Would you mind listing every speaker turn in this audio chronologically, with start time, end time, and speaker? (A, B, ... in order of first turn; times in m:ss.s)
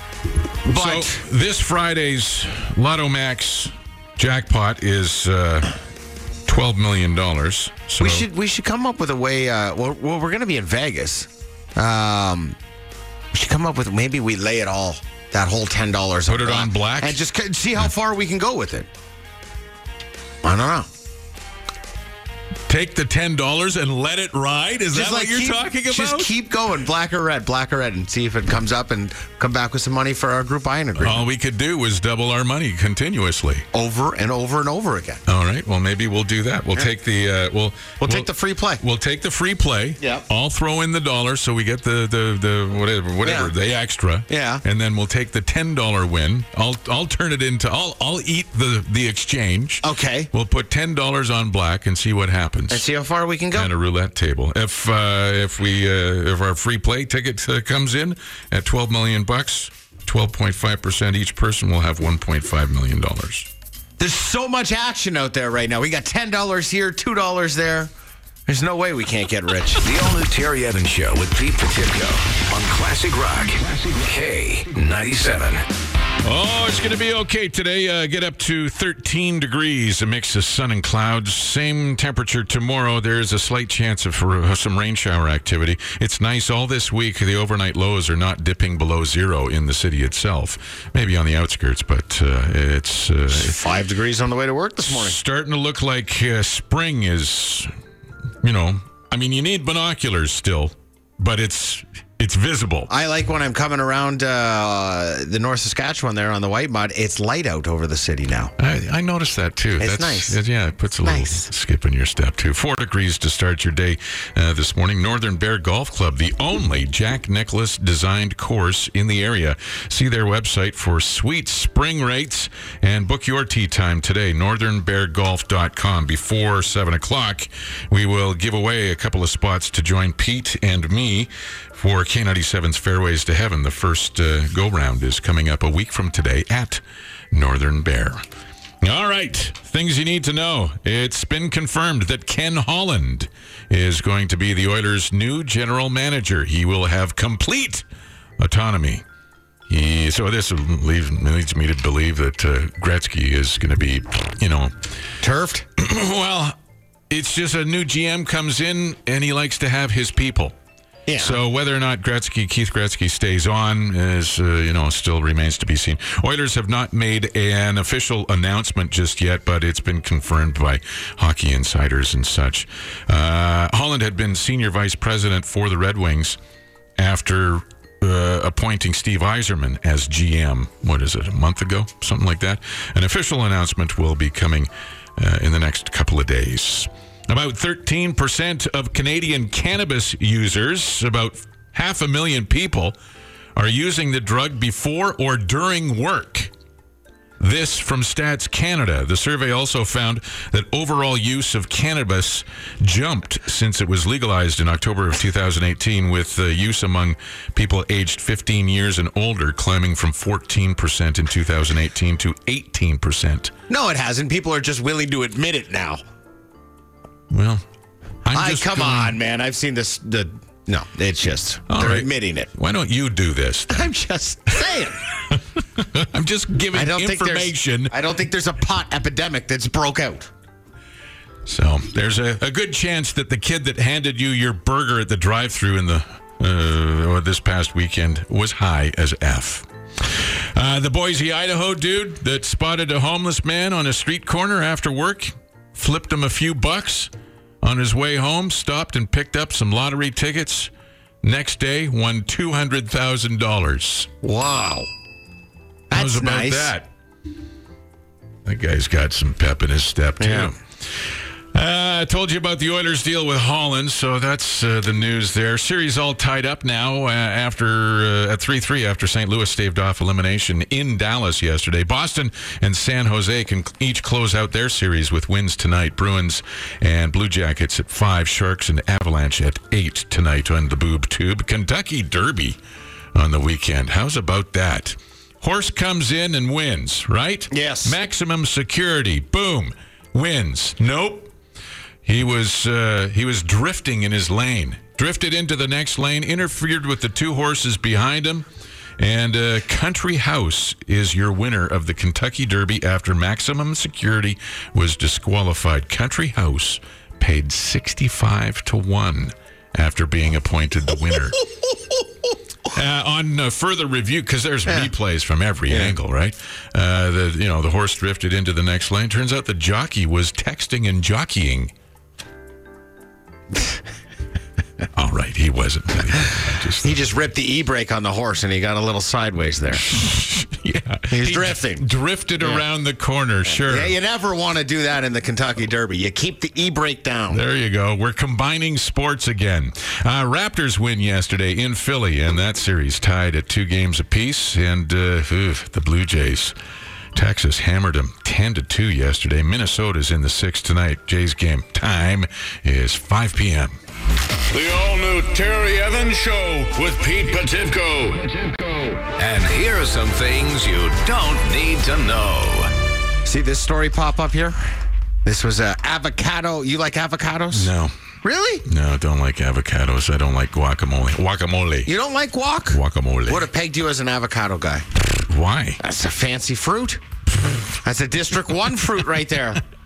0:00.7-0:05.7 A
0:00.7-0:01.2 B
0:06.5-0:08.3 A
0:08.0-0:12.6 B
0:13.3-0:18.9 B
0:16.3-0:17.2 A
0:20.4-0:20.9 B
0:22.7-0:26.3 A
0:24.9-0:31.2 B
0:31.0-0:33.7 A
0:33.7-0:35.2 B
0:35.3-0:52.8 A
0:38.0-0:38.8 B
0:40.0-0:40.3 B
0:43.2-0:43.5 B
0:44.3-0:44.6 B
0:49.8-0:50.3 B
0:52.7-0:53.7 B
0:53.5-1:03.5 A
1:04.0-1:07.9 B
1:08.5-1:09.8 B
1:09.8-1:15.7 C
1:16.2-1:33.6 A
1:33.3-1:35.2 B
1:34.8-1:37.7 A
1:38.4-1:42.9 A
1:42.9-1:48.5 B
1:48.6-2:16.8 A
1:49.8-1:50.4 B
1:51.0-1:51.5 B
2:17.3-2:18.2 A
2:18.8-2:27.9 A
2:28.4-2:29.0 A
2:29.7-2:34.7 A
2:35.2-2:35.7 B
2:35.8-2:36.6 A
2:37.1-2:40.6 A
2:41.1-2:41.4 B
2:41.2-2:56.4 A
2:57.0-3:13.0 A
3:13.6-3:16.5 A
3:17.4-3:33.5 A
3:33.7-3:36.0 B
3:37.3-3:37.6 A
3:38.2-3:39.2 A
3:38.3-3:42.5 B
3:41.7-3:43.9 A
3:43.7-3:45.0 B
3:45.3-3:47.9 A
3:46.7-3:50.3 B
3:51.5-3:59.7 A
4:00.6-4:07.1 A
4:07.6-4:10.7 A
4:11.2-4:14.1 A
4:14.2-4:14.9 B
4:15.9-4:16.7 B
4:15.9-4:16.9 A
4:18.4-4:20.6 A
4:20.2-4:20.5 B
4:21.5-4:42.6 A
4:43.1-4:51.3 A
4:47.5-4:48.0 B
4:52.0-4:58.5 A
4:59.0-5:11.5 A
5:12.7-5:21.7 A
5:14.7-5:14.9 B
5:15.7-5:16.0 B
5:24.9-5:27.0 A
5:26.8-5:29.9 B
5:29.8-5:34.0 A
5:31.1-5:31.9 B
5:33.5-5:37.4 B
5:37.3-5:46.6 A
5:47.2-5:53.8 A
5:54.5-5:59.1 D
5:59.2-6:02.7 C
6:03.2-6:04.6 B
6:05.2-6:07.7 B
6:07.5-6:07.9 A
6:08.2-6:08.6 B
6:08.7-6:11.9 A
6:11.9-6:14.9 B
6:12.7-6:13.5 A
6:15.3-6:15.8 A
6:15.8-6:17.0 B
6:17.8-6:19.6 B